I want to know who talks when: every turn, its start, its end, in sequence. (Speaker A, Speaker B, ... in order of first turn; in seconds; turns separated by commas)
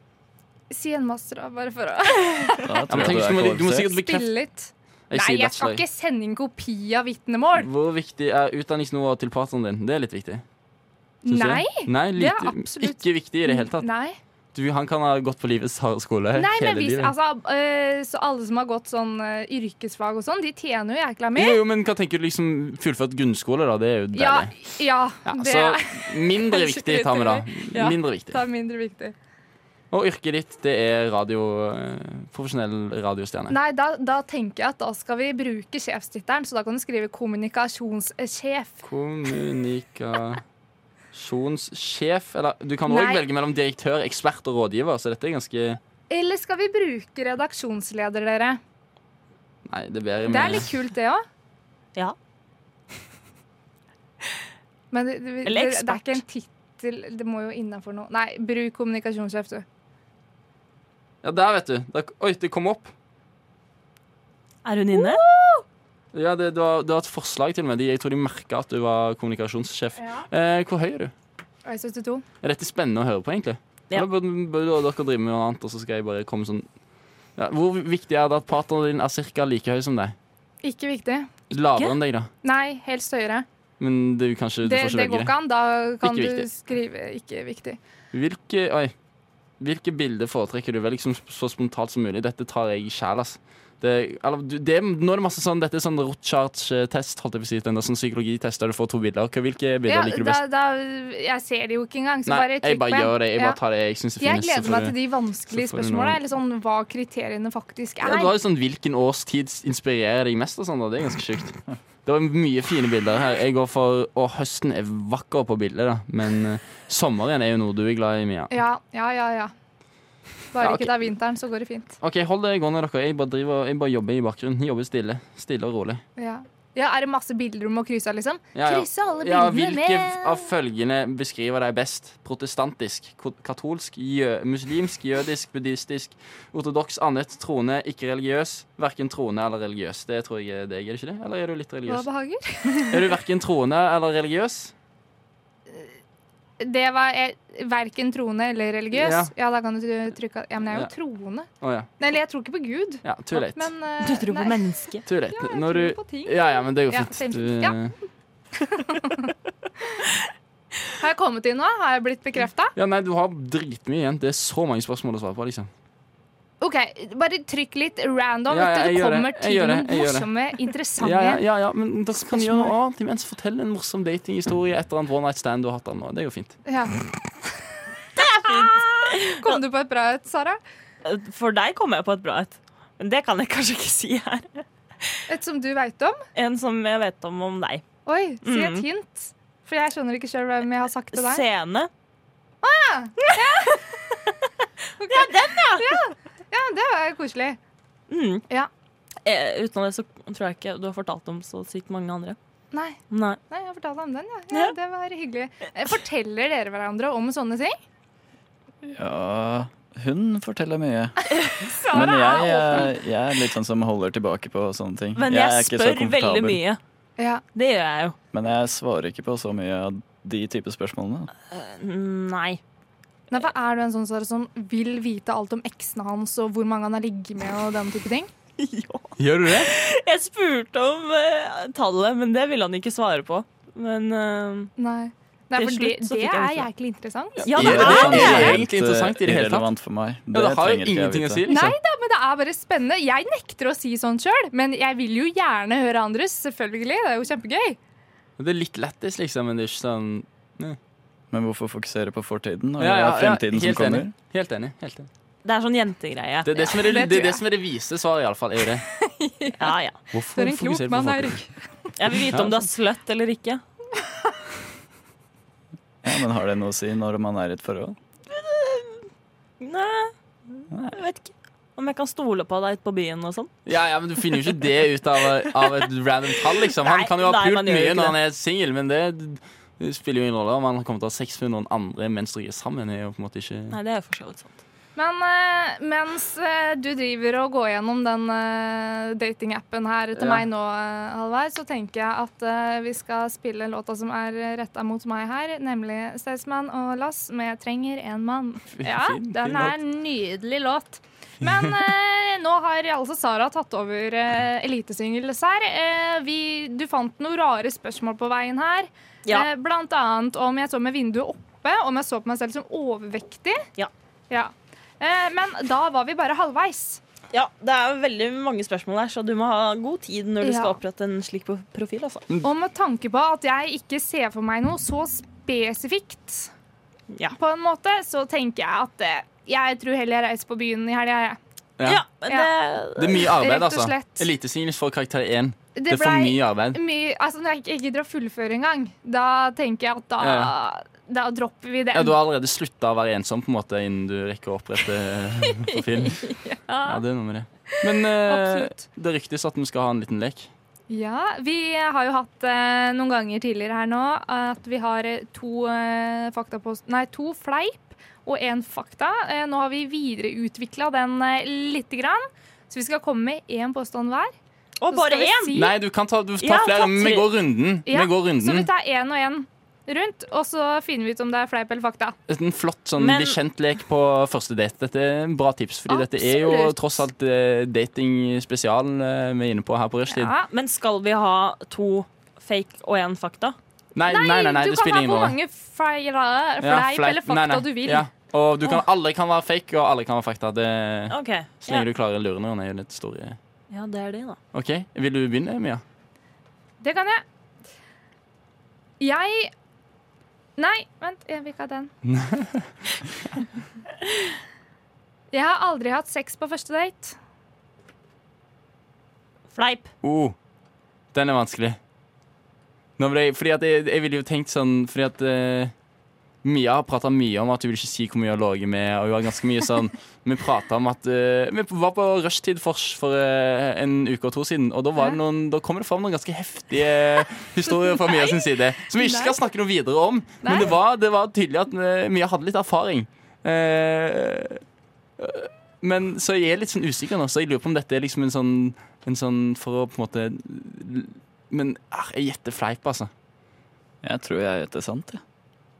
Speaker A: 0.7-7.7, Speaker B: 2.6-3.9, Speaker C: 2.9-4.3, Speaker C: 5.1-5.8, Speaker C: 7.5-10.4, Speaker A: 11.2-14.2, Speaker C: 11.3-13.9, Speaker C: 14.5-17.1, Speaker A: 16.3-21.6, Speaker C: 21.3-24.5, Speaker A: 24.1-29.1, Speaker C: 25.2-28.4, Speaker C: 29.9-33.6, Speaker A: 33.5-38.8, Speaker C: 38.8-40.4, Speaker C: 41.1-45.8, Speaker A: 42.9-43.2, Speaker A: 46.1-48.6, Speaker C: 49.6-50.7, Speaker A: 50.2-51.2, Speaker A: 54.9-59.6, Speaker D: 55.4-56.2, Speaker C: 61.2-62.9, Speaker D: 64.6-65.2, Speaker A: 64.9-65.6, Speaker C: 66.1-71.1, Speaker A: 70.0-70.2, Speaker A: 71.7-72.2, Speaker C: 72.4-76.7, Speaker C: 77.3-80.2, Speaker A: 80.6-81.3, Speaker C: 81.5-82.3, Speaker A: 82.4-83.5, Speaker C: 83.8-85.3, Speaker A: 84.6-87.8, Speaker C: 86.0-86.5, Speaker C: 88.1-88.9, Speaker C: 89.6-100.4, Speaker A: 99.9-103.6, Speaker C: 102.3-104.9, Speaker A: 104.2-108.3, Speaker C: 105.5-106.2, Speaker C: 108.0-118.5, Speaker A: 118.5-119.5, Speaker A: 120.5-122.0, Speaker C: 120.6-120.9, Speaker C: 122.0-126.0, Speaker A: 126.2-130.5, Speaker C: 128.5-142.1, Speaker A: 141.9-143.1, Speaker C: 142.9-144.7, Speaker A: 146.6-151.5, Speaker C: 148.9-149.3, Speaker C: 151.6-151.9, Speaker A: 152.0-154.6, Speaker C: 153.0-153.7, Speaker D: 154.0-155.0, Speaker C: 155.1-157.9, Speaker A: 155.3-157.8, Speaker A: 158.6-159.3, Speaker A: 160.9-162.7, Speaker C: 162.8-165.7, Speaker A: 166.6-171.4, Speaker C: 168.5-170.3, Speaker C: 171.0-176.6, Speaker A: 172.3-172.7, Speaker A: 176.7-177.5, Speaker A: 178.2-180.6, Speaker D: 178.2-179.6, Speaker D: 181.0-185.2, Speaker A: 185.3-186.2, Speaker D: 186.3-187.8, Speaker A: 188.1-191.4, Speaker D: 188.4-188.8, Speaker D: 191.1-191.9, Speaker A: 192.6-194.2, Speaker A: 195.0-197.6, Speaker D: 195.1-196.1, Speaker D: 198.1-198.4, Speaker D: 199.2-202.4, Speaker A: 202.7-203.0, Speaker D: 203.1-203.4, Speaker A: 203.5-207.8, Speaker B: 208.8-211.3, Speaker A: 211.3-212.9, Speaker D: 211.4-212.2, Speaker B: 211.9-216.6, Speaker D: 215.2-216.8, Speaker A: 217.2-217.4, Speaker D: 217.5-218.2, Speaker B: 218.3-221.3, Speaker D: 221.5-222.6, Speaker A: 223.3-228.3, Speaker D: 228.6-234.7, Speaker C: 229.2-229.7, Speaker A: 234.8-238.5, Speaker D: 235.5-236.7, Speaker D: 237.4-238.6, Speaker C: 237.4-239.7, Speaker B: 237.6-241.4, Speaker C: 240.3-241.8, Speaker A: 241.5-247.8, Speaker C: 248.4-250.8, Speaker B: 251.3-254.1, Speaker C: 252.8-255.1, Speaker D: 255.4-256.8, Speaker C: 256.4-258.9, Speaker A: 256.8-257.4, Speaker A: 258.9-259.7, Speaker D: 259.6-260.0, Speaker C: 260.1-261.4, Speaker A: 260.3-261.9, Speaker D: 262.0-263.6, Speaker C: 262.3-262.6, Speaker B: 266.0-268.0, Speaker D: 268.3-269.0, Speaker D: 269.6-273.5, Speaker C: 273.6-283.7, Speaker D: 274.3-274.6, Speaker D: 275.2-275.9, Speaker D: 276.5-278.2, Speaker D: 283.7-284.5, Speaker A: 284.9-313.6, Speaker C: 290.2-290.4, Speaker C: 298.7-299.8, Speaker A: 314.3-317.0, Speaker D: 317.3-322.2, Speaker A: 320.4-320.8, Speaker A: 322.4-326.5, Speaker A: 327.3-331.4, Speaker C: 331.8-332.0, Speaker D: 331.8-333.4, Speaker C: 332.9-336.8, Speaker A: 333.4-334.3, Speaker A: 335.7-342.2, Speaker C: 340.2-340.5, Speaker C: 341.9-350.5, Speaker A: 345.6-347.0, Speaker A: 347.7-348.8, Speaker A: 350.9-364.3, Speaker D: 364.8-365.6, Speaker A: 364.9-365.8, Speaker C: 365.5-368.7, Speaker D: 366.4-367.3, Speaker A: 367.9-372.2, Speaker C: 372.3-380.3, Speaker D: 373.0-373.4, Speaker A: 375.9-377.0, Speaker A: 380.1-380.4, Speaker D: 380.5-383.6, Speaker C: 383.9-385.4, Speaker A: 384.1-388.1, Speaker C: 386.6-393.4, Speaker D: 391.1-391.9, Speaker D: 393.7-394.4, Speaker C: 394.5-395.8, Speaker A: 396.8-397.2, Speaker A: 399.0-399.5, Speaker A: 400.6-401.9, Speaker C: 402.0-402.7, Speaker A: 405.3-407.1, Speaker D: 409.5-409.9, Speaker C: 410.0-410.3, Speaker C: 411.1-411.8, Speaker C: 413.0-415.7, Speaker C: 416.4-434.6, Speaker A: 428.0-429.4, Speaker A: 430.4-430.7, Speaker C: 435.2-443.1, Speaker B: 444.0-445.2